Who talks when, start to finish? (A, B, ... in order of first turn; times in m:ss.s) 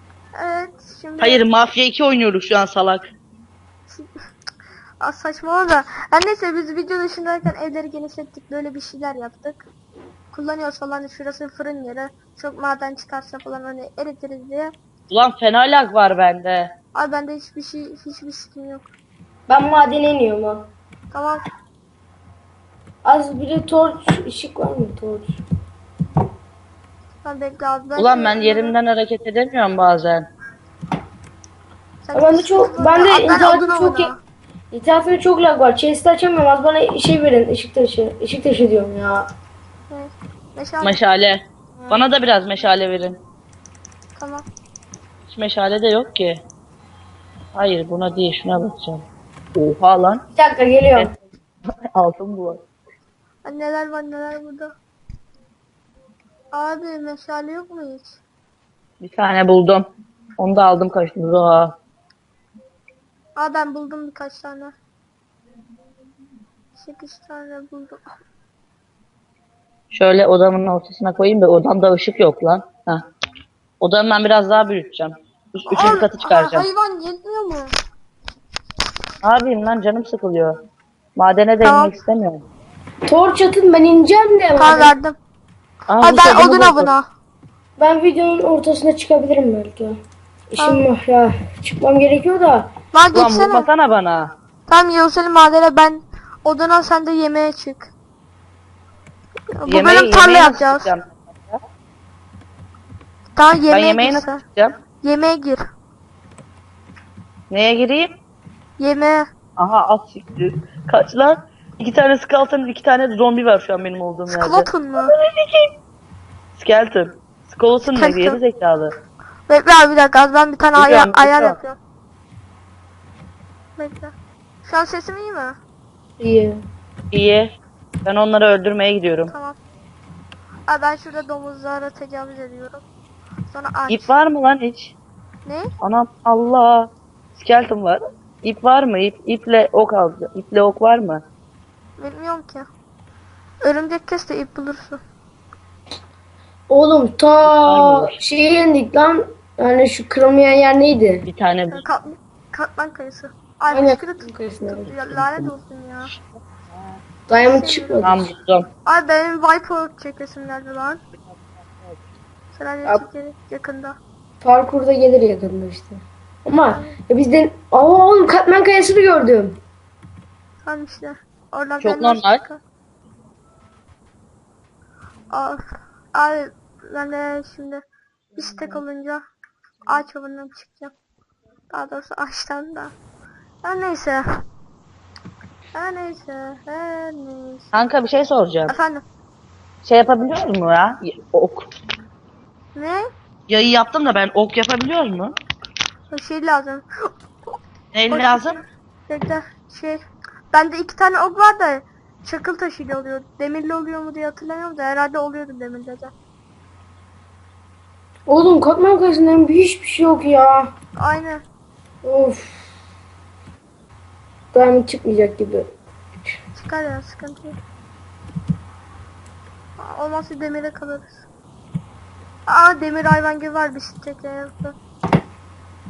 0:00.3-0:01.4 A
0:01.2-0:03.0 B
0:05.0-0:09.6 A
0:10.3-0:14.7 A
0:15.1-0:16.7 B
0:16.9-0:18.8 A
0:19.5-0:20.7 C
0:21.1-0:21.4 A
0:23.0-0:25.4 C
0:27.2-0:28.8 A
0:28.0-0:30.3 B
0:32.0-0:34.2 A
0:32.1-0:34.1 C
0:34.7-0:39.3 C
0:39.9-0:41.0 A
0:40.8-0:43.2 B
0:44.2-0:44.4 A
0:45.3-0:46.4 B
0:47.5-0:49.0 B
0:49.5-0:50.2 B
0:50.4-0:51.1 C
0:51.9-0:52.6 B
0:53.4-0:54.7 A
0:56.5-0:58.2 A
0:59.0-0:59.8 B
1:00.4-1:01.7 B
1:03.4-1:04.7 A
1:06.8-1:08.0 A
1:09.9-1:13.0 B
1:13.8-1:16.7 B
1:15.7-1:17.7 A
1:19.2-1:20.5 B
1:21.2-1:22.4 B
1:21.6-1:21.9 A
1:23.1-1:24.9 C
1:24.6-1:25.2 A
1:25.9-1:26.9 B
1:26.0-1:27.1 A
1:27.8-1:30.0 C
1:30.5-1:32.7 C
1:30.6-1:30.9 A
1:32.9-1:33.7 A
1:33.1-1:34.3 B
1:34.7-1:37.9 A
1:39.5-1:40.9 A
1:39.7-1:41.6 B
1:43.4-1:44.4 A
1:43.7-1:44.8 B
1:45.0-1:45.6 A
1:47.5-1:48.1 B
1:48.8-1:49.3 A
1:49.6-1:55.7 B
1:54.3-1:55.1 A
1:56.5-1:58.9 B
1:57.8-1:58.4 A
1:59.5-2:01.8 A
2:00.8-2:01.6 B
2:03.8-2:05.6 A
2:06.2-2:06.6 C
2:07.1-2:07.5 B
2:08.0-2:09.3 B
2:09.3-2:09.6 A
2:10.7-2:12.8 A
2:13.5-2:14.2 A
2:13.9-2:14.9 B
2:15.4-2:15.7 A
2:15.8-2:21.2 B
2:22.0-2:22.7 A
2:23.6-2:25.0 A
2:26.7-2:31.2 C
2:27.4-2:28.2 B
2:31.3-2:31.8 B
2:31.7-2:36.1 A
2:33.7-2:34.9 C
2:35.1-2:35.5 B
2:37.3-2:38.3 C
2:37.4-2:38.1 A
2:38.0-2:38.7 B
2:38.8-2:41.0 A
2:42.5-2:44.0 A
2:44.4-2:49.6 C
2:46.7-2:47.0 A
2:50.6-2:52.6 A
2:51.8-2:52.4 B
2:55.3-2:55.6 A
2:56.1-2:57.8 A
2:58.4-2:59.2 A
2:59.9-3:00.9 A
3:01.7-3:02.9 A
3:03.6-3:04.4 A
3:05.7-3:07.7 A
3:07.7-3:08.7 B
3:08.7-3:09.0 A
3:09.8-3:11.7 B
3:12.7-3:13.1 A
3:13.5-3:15.3 B
3:16.1-3:17.1 A
3:17.9-3:18.6 B
3:18.1-3:26.1 A
3:28.3-3:30.7 C
3:31.0-3:31.4 A
3:32.0-3:32.7 C
3:34.5-3:35.7 C
3:36.5-3:37.6 A
3:39.8-3:41.1 A
3:42.5-3:44.8 A